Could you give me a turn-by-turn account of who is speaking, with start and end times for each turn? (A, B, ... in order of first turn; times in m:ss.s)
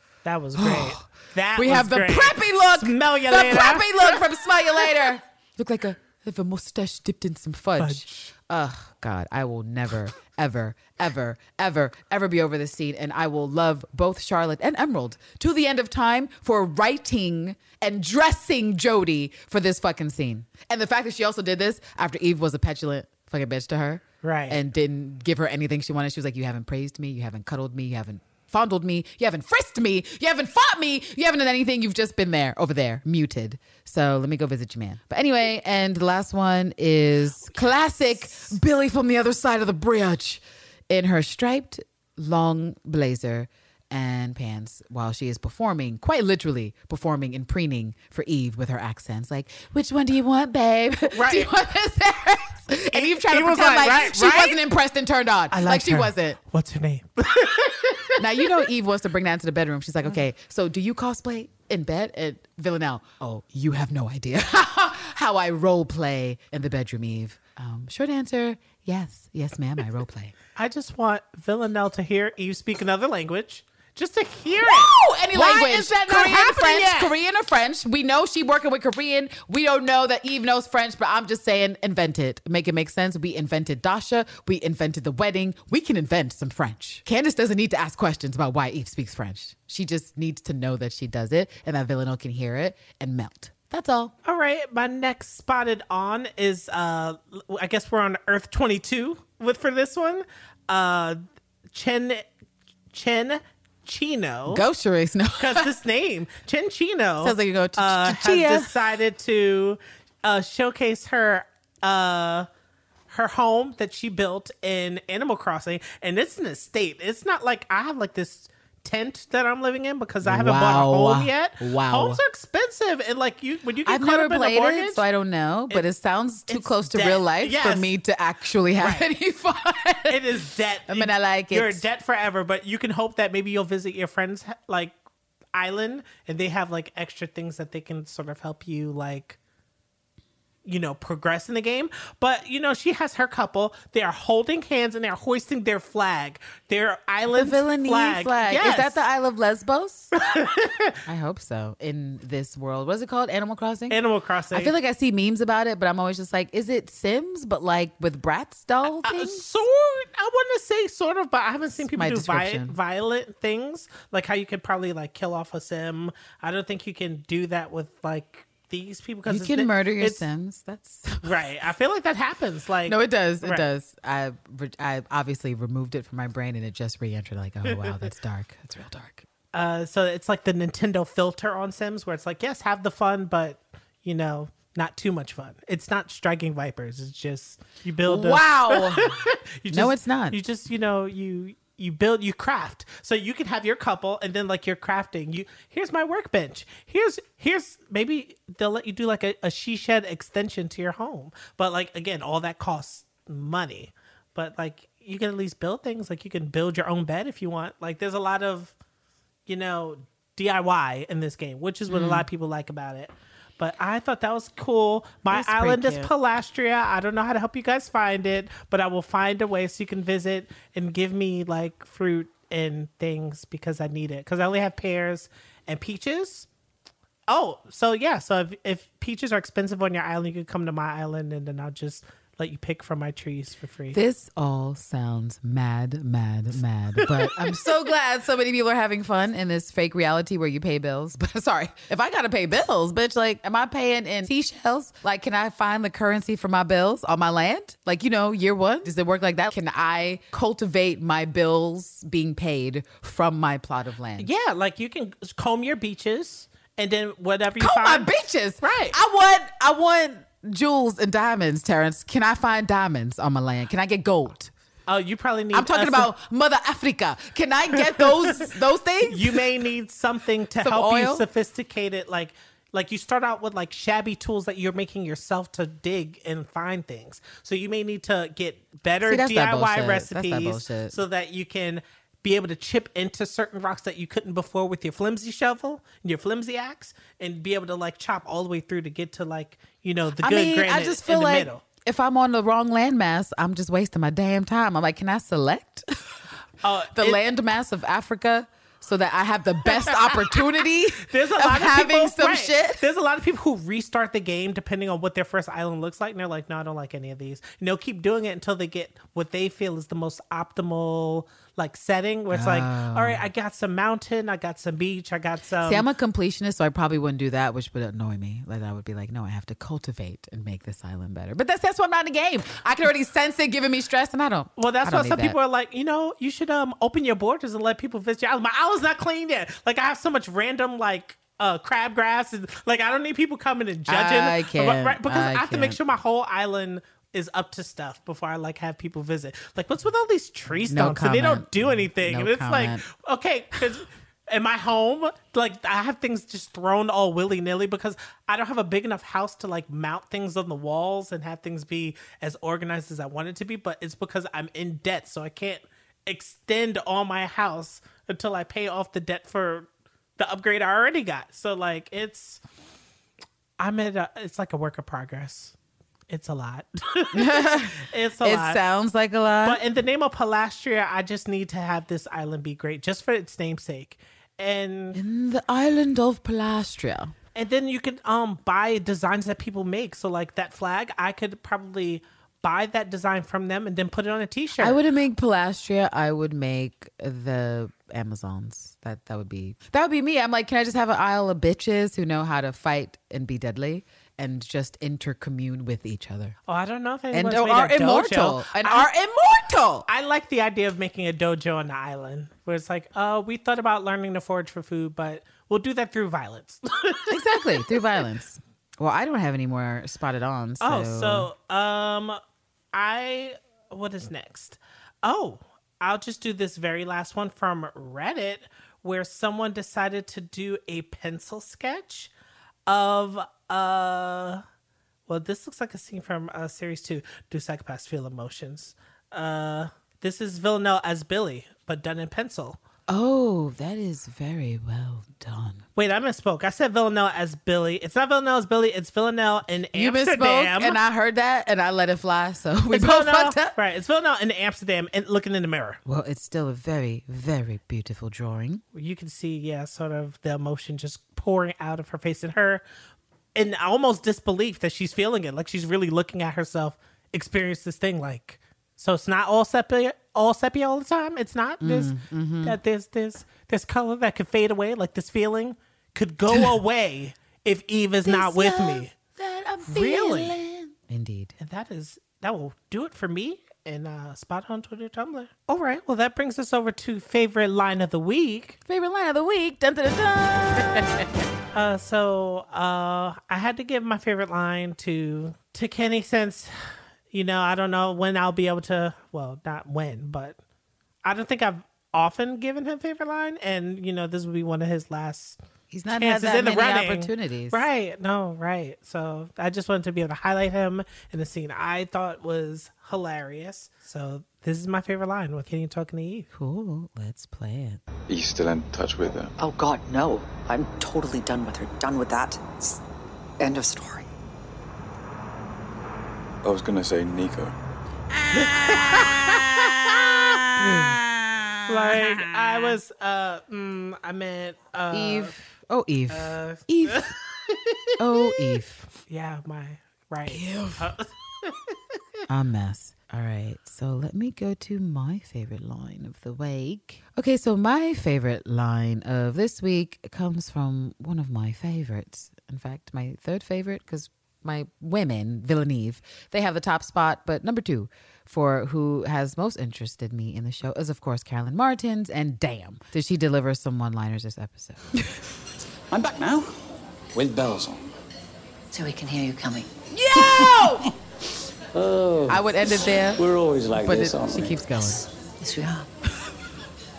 0:00.2-0:04.2 A
0:00.6-0:56.4 B
0:07.8-0:08.3 A
0:24.2-0:24.6 A
0:37.4-0:37.7 A
0:51.1-0:51.5 A
0:52.9-0:54.6 A
0:55.5-0:58.6 A
0:58.1-1:10.3 B
1:10.6-1:17.1 A
1:14.6-1:34.1 B
1:34.2-1:42.3 A
1:42.9-1:44.6 A
1:44.5-1:45.7 B
1:45.4-1:52.5 A
1:47.2-1:48.8 B
1:53.1-2:05.0 A
2:00.2-2:02.2 B
2:03.8-2:11.8 B
2:06.5-2:07.9 A
2:08.8-2:09.1 A
2:10.1-2:14.9 A
2:15.5-2:19.4 A
2:20.6-2:29.0 A
2:27.3-2:30.1 B
2:30.2-2:31.0 A
2:31.0-2:34.0 B
2:33.9-2:34.7 A
2:34.5-2:39.4 B
2:38.9-2:50.2 A
2:41.9-2:42.8 B
2:49.3-2:51.2 B
2:51.2-2:53.6 A
2:52.8-2:59.2 B
2:57.7-2:58.0 A
2:59.5-3:28.7 A
3:08.0-3:09.2 B
3:09.7-3:10.4 B
3:29.5-3:46.5 A
3:31.9-3:32.3 B
3:35.3-3:36.1 B
3:47.3-3:54.0 A
3:53.9-4:14.3 B
3:57.0-3:57.3 A
4:14.2-4:18.1 A
4:17.6-4:24.5 B
4:18.6-4:19.0 A
4:24.9-4:26.1 A
4:25.5-4:29.4 B
4:29.0-4:51.6 A
4:30.6-4:31.2 B
4:39.0-4:41.0 B
4:50.2-4:56.0 B
4:56.6-4:57.2 A
4:56.9-5:02.8 B
5:01.0-5:15.8 A
5:12.3-5:13.2 B
5:15.6-5:25.4 B
5:24.6-6:02.4 A
5:33.9-5:35.8 B
5:40.7-5:42.8 B
6:03.6-6:05.5 A
6:06.1-6:08.6 A
6:07.1-6:09.6 B
6:09.4-6:15.0 A
6:14.9-6:17.1 B
6:17.3-6:24.8 A
6:24.6-6:36.4 B
6:36.5-6:38.9 A
6:37.1-6:39.8 B
6:39.9-6:48.0 A
6:47.1-6:51.3 B
6:50.6-6:52.2 A
6:52.7-7:02.1 A
7:02.6-7:04.4 A
7:05.1-7:12.6 A
7:12.9-7:15.6 B
7:15.8-7:20.8 A
7:19.7-7:23.5 B
7:22.7-7:25.8 A
7:25.8-7:28.6 B
7:28.7-7:32.6 A
7:33.4-7:48.9 A
7:41.6-7:42.6 B
7:48.0-7:51.3 B
7:49.7-7:50.3 A
7:51.4-7:58.6 A
7:58.6-8:01.0 B
8:01.5-8:10.4 A
8:11.0-8:15.4 A
8:15.7-8:17.7 B
8:15.9-8:26.3 A
8:26.3-8:27.8 B
8:28.1-8:29.3 C
8:29.4-8:32.8 D
8:33.4-8:34.1 D
8:36.4-8:37.5 C
8:38.3-8:42.8 B
8:38.3-8:39.0 A
8:41.7-8:45.4 A
8:44.9-8:47.1 B
8:46.1-8:51.7 A
8:48.0-8:48.8 B
8:50.2-8:50.9 B
8:52.3-9:15.0 B
9:15.9-9:18.0 E
9:18.7-9:19.7 D
9:19.9-9:20.9 B
9:20.2-9:20.8 E
9:21.7-9:24.7 E
9:22.2-9:25.0 B
9:25.4-9:25.9 D